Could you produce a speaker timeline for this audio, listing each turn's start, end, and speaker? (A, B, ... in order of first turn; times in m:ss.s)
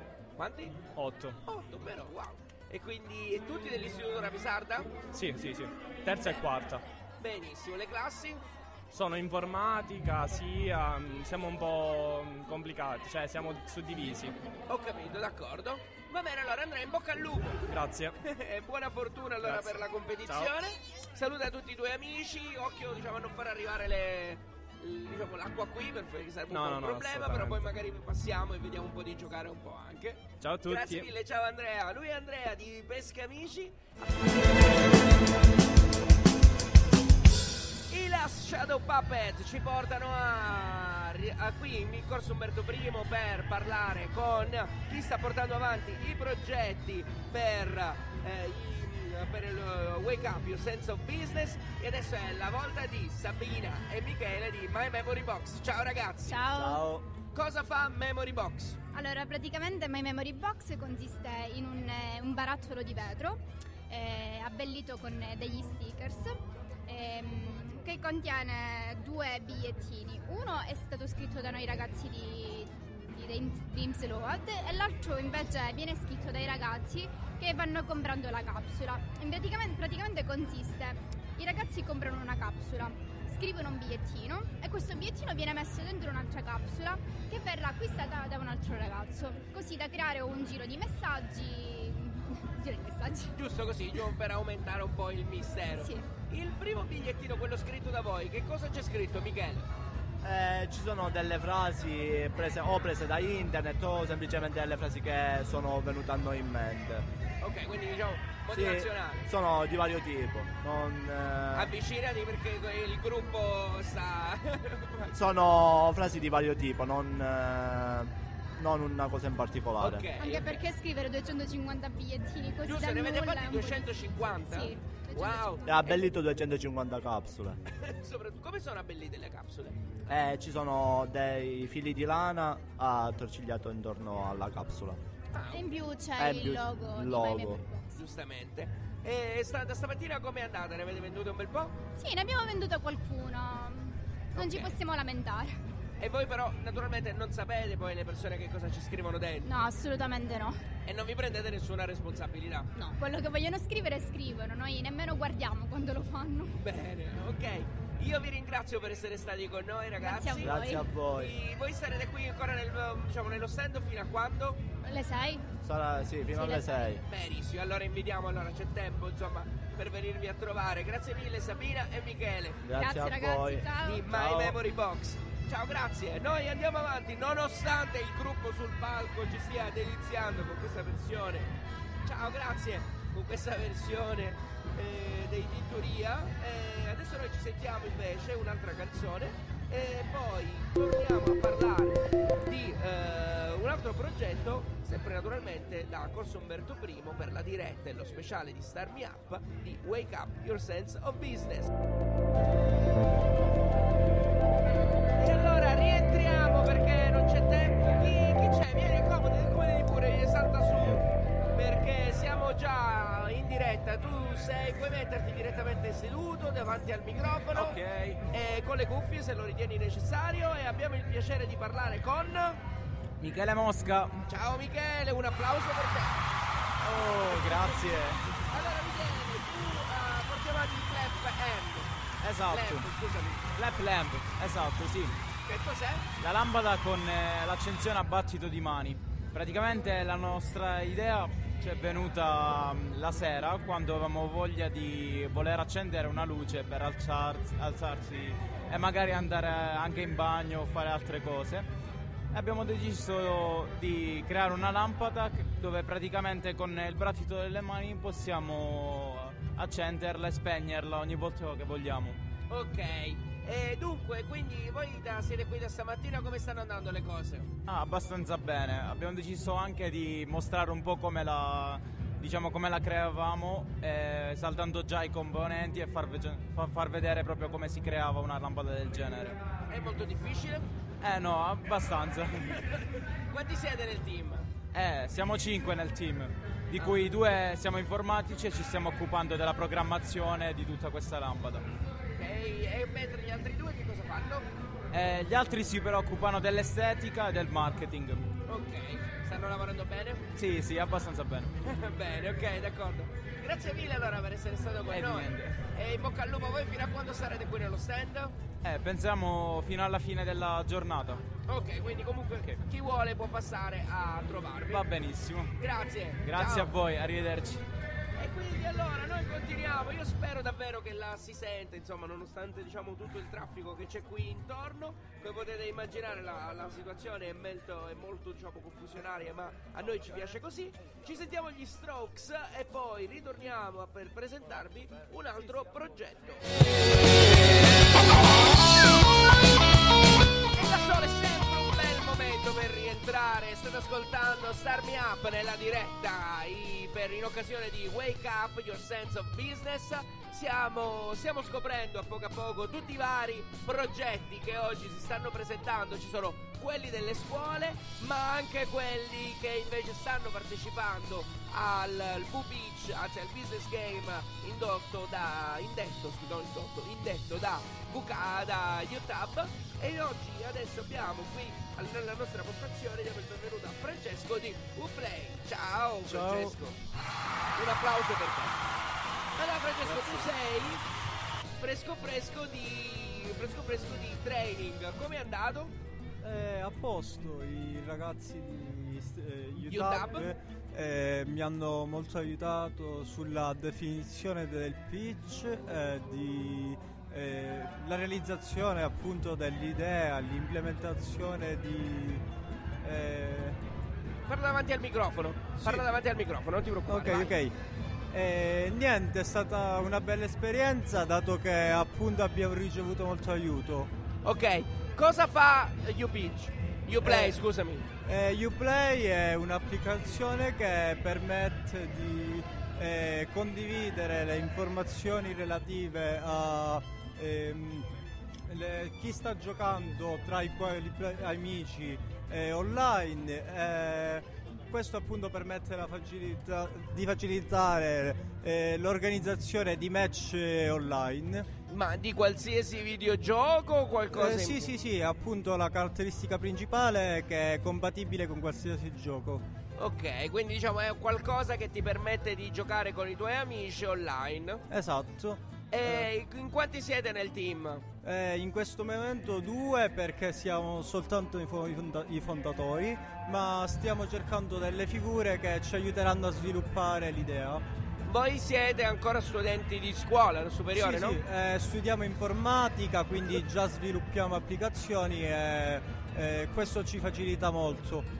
0:00.4-0:00.8 A
0:00.9-0:01.4 B
0:01.4-0:04.9 A
0:05.1-0:06.8 B
0:07.2-0:08.4 A
0:08.9-0:14.4 B
0:14.7-0:17.7 A
0:17.7-0:18.2 B
0:18.2-0:33.9 A
0:19.4-0:20.5 B
0:26.5-0:27.7 B
0:30.4-0:31.1 B
0:37.9-0:56.4 A
0:56.2-0:56.9 C
0:56.5-0:57.0 D
0:57.3-0:58.8 A
0:58.9-1:06.4 C
1:06.9-1:33.3 C
1:33.3-1:39.7 A
1:35.8-1:36.1 C
1:40.2-1:47.0 D
1:47.4-1:49.3 A
1:48.5-1:51.7 D
1:51.5-1:55.1 A
1:55.1-2:00.0 D
1:59.8-2:00.6 A
2:00.2-2:05.9 C
2:02.6-2:06.0 A
2:05.6-2:07.6 D
2:07.8-2:09.8 A
2:10.1-2:15.0 D
2:15.3-2:15.7 A
2:15.5-2:17.9 C
2:16.2-2:17.6 D
2:17.9-2:21.8 A
2:22.0-2:25.6 C
2:24.3-2:24.7 A
2:26.0-2:29.5 A
2:29.4-2:30.6 C
2:30.8-2:32.7 A
2:32.8-2:36.5 C
2:36.6-2:44.6 A
2:40.0-2:40.9 C
2:40.4-2:41.3 D
2:44.8-2:45.5 C
2:45.6-2:47.0 D
2:46.3-2:47.0 C
2:47.1-2:52.6 A
2:52.6-2:54.6 D
2:52.7-2:54.2 C
2:53.8-3:01.5 A
3:02.0-3:21.7 A
3:25.2-3:37.8 A
3:37.5-3:38.2 E
3:38.3-3:42.6 A
3:43.2-3:44.2 E
3:44.3-3:46.2 A
3:46.8-3:48.2 E
3:48.5-3:53.5 A
3:52.2-3:52.9 E
3:53.5-3:55.1 E
3:55.4-3:56.1 A
3:56.2-4:11.7 E
4:12.3-4:22.2 E
4:22.5-4:27.5 A
4:27.7-4:39.4 E
4:39.7-4:40.7 A
4:41.0-4:42.5 E
4:43.3-4:44.5 A
4:44.7-4:51.6 E
4:52.2-4:54.4 A
4:54.9-4:58.3 E
4:58.5-5:00.3 A
5:00.3-5:01.5 E
5:01.6-5:08.3 A
5:04.9-5:05.6 E
5:08.6-5:11.2 E
5:11.5-5:14.9 A
5:14.7-5:15.5 E
5:15.6-5:16.7 A
5:16.2-5:17.6 E
5:18.2-5:37.5 A
5:40.6-6:16.8 A
6:16.0-6:16.5 F
6:17.6-6:18.6 A
6:19.4-6:20.8 A
6:21.6-6:25.7 A
6:26.2-6:42.2 F
6:29.6-6:30.3 A
6:42.8-6:43.6 F
6:44.3-6:47.3 A
6:46.8-6:47.5 F
6:48.1-6:53.9 F
6:54.2-6:57.8 A
6:57.0-6:57.4 F
6:58.0-7:07.9 F
7:08.5-7:21.5 F
7:21.7-7:24.7 A
7:24.1-7:29.4 F
7:29.8-7:34.6 A
7:34.7-7:36.1 F
7:35.7-7:37.8 A
7:38.0-7:47.6 F
7:48.0-7:51.2 A
7:50.7-7:58.0 F